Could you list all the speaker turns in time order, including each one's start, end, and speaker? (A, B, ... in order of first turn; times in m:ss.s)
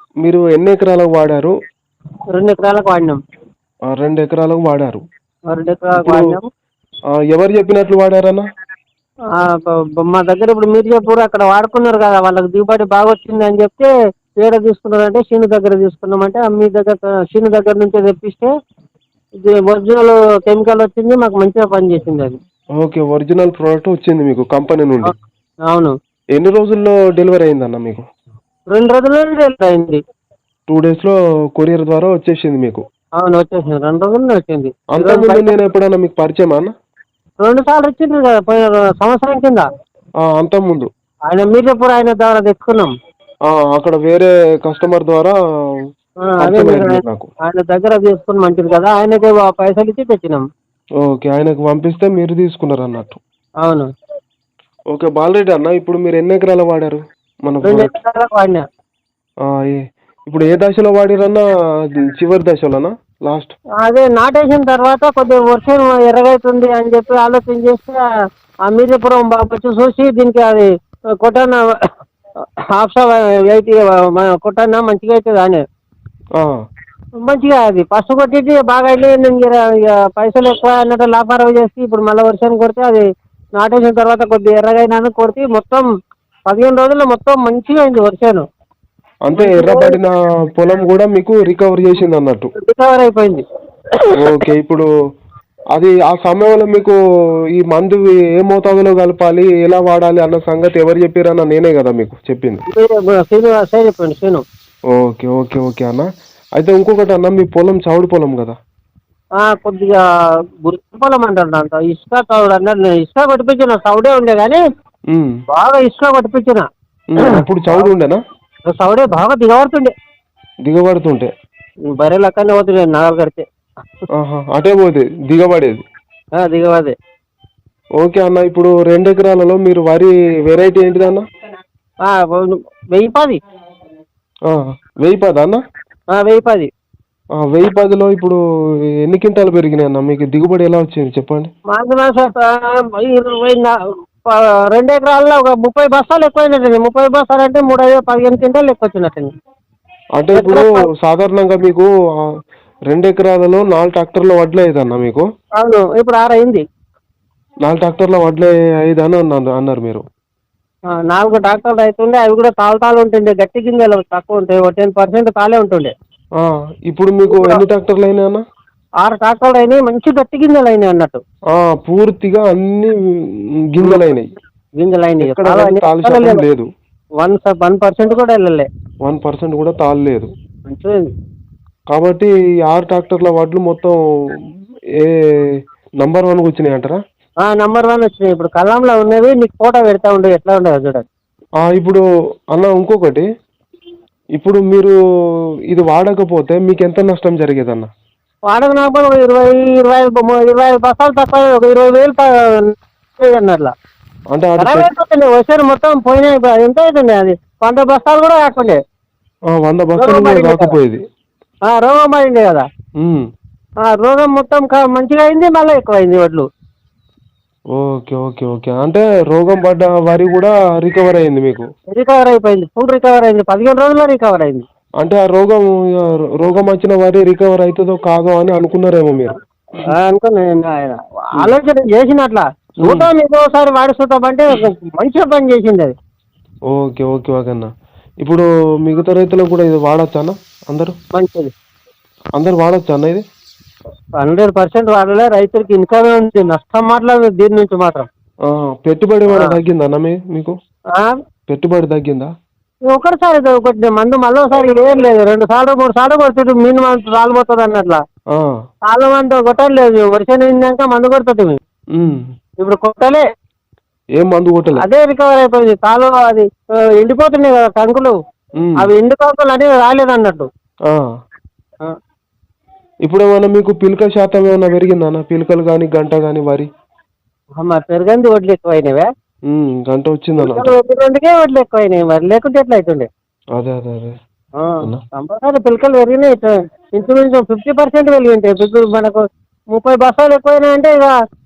0:00.2-0:01.6 A
0:02.4-0:03.2 B
0:03.9-0:05.0 A
0:05.5-0:06.5 B
0:06.0-0:06.4 A
0:07.3-0:08.4 A
0:09.4-0:13.9 B
0:14.4-0:18.5 B
0:19.4-0:22.4 B
0:22.8-0:25.1 A
0:25.7-0:25.9 B
0:26.4-0:28.0 A
0:28.7-0:30.0 B
0:30.7-0:32.8 A
0:33.2-0:35.5 B
0:34.9-0:36.7 A
0:37.4-0:39.7 B
0:40.3-0:40.9 A
0:41.3-0:42.9 B
0:43.5-0:45.3 A
0:46.3-0:50.4 B
0:46.4-0:47.3 A
0:51.0-0:53.2 A
0:54.9-0:57.9 A
0:57.6-0:58.6 B
0:59.5-1:01.4 A
1:02.0-1:03.5 A
1:03.8-1:08.0 B
1:08.7-1:10.7 B
1:11.2-1:11.8 B
1:12.7-1:15.6 B
1:17.2-1:23.0 B
1:23.6-1:25.9 B
1:26.5-1:28.4 B
1:29.3-1:32.5 A
1:29.4-1:30.0 B
1:32.6-1:33.4 B
1:34.2-1:34.9 A
1:35.8-1:37.0 A
1:37.6-1:42.6 A
1:42.7-1:44.4 B
1:45.0-1:46.1 A
1:46.6-1:48.6 A
1:49.4-1:50.0 B
1:50.6-1:54.6 B
1:55.5-1:56.7 B
1:57.1-1:58.2 A
1:57.2-1:57.9 B
1:58.7-1:59.9 B
2:00.6-2:01.3 A
2:01.9-2:03.4 B
2:04.1-2:05.8 A
2:06.4-2:06.9 B
2:08.0-2:11.2 A
2:12.0-2:13.4 B
2:14.5-2:15.6 A
2:16.2-2:16.7 B
2:17.4-2:18.4 A
2:19.0-2:21.5 A
2:21.7-2:23.8 B
2:24.3-2:29.3 B
2:30.2-2:31.9 A
2:30.4-2:30.8 B
2:32.9-2:35.2 A
2:35.6-2:36.6 B
2:37.6-2:40.0 A
2:41.0-2:45.9 B
2:46.4-2:48.4 A
2:47.3-2:47.6 B
2:49.0-2:51.2 B
2:51.5-2:53.0 A
2:53.7-2:54.3 A
2:54.8-2:56.4 B
2:55.2-2:56.7 A
2:57.2-2:58.7 B
2:59.0-3:00.3 A
3:00.7-3:01.1 B
3:01.9-3:04.0 A
3:06.0-3:07.0 A
3:07.4-3:11.0 B
3:11.6-3:12.0 A
3:12.5-3:13.2 A
3:14.4-3:14.9 A
3:15.7-3:17.9 A
3:18.5-3:23.7 B
3:24.3-3:24.9 A
3:24.6-3:28.8 B
3:29.5-3:31.0 A
3:30.0-3:30.7 B
3:31.7-3:32.6 B
3:33.9-3:36.4 B
3:37.7-3:41.6 A
3:41.9-3:44.6 B
3:45.0-3:49.4 A
3:49.9-3:55.9 B
3:52.8-3:53.1 A
3:56.7-3:57.7 A
3:58.2-4:00.9 A
4:01.2-4:01.5 B
4:02.4-4:03.2 A
4:04.2-4:08.1 B
4:08.5-4:10.5 A
4:11.5-4:12.3 A
4:12.9-4:18.0 B
4:18.9-4:21.6 B
4:22.0-4:22.2 A
4:22.6-4:23.2 B
4:24.2-4:24.9 A
4:24.8-4:28.2 B
4:28.6-4:28.9 A
4:28.8-4:30.5 B
4:33.0-4:36.7 A
4:37.6-4:39.1 B
4:39.5-4:40.7 A
4:40.4-4:43.1 B
4:43.6-4:44.2 A
4:44.6-4:49.2 B
4:49.7-4:51.1 B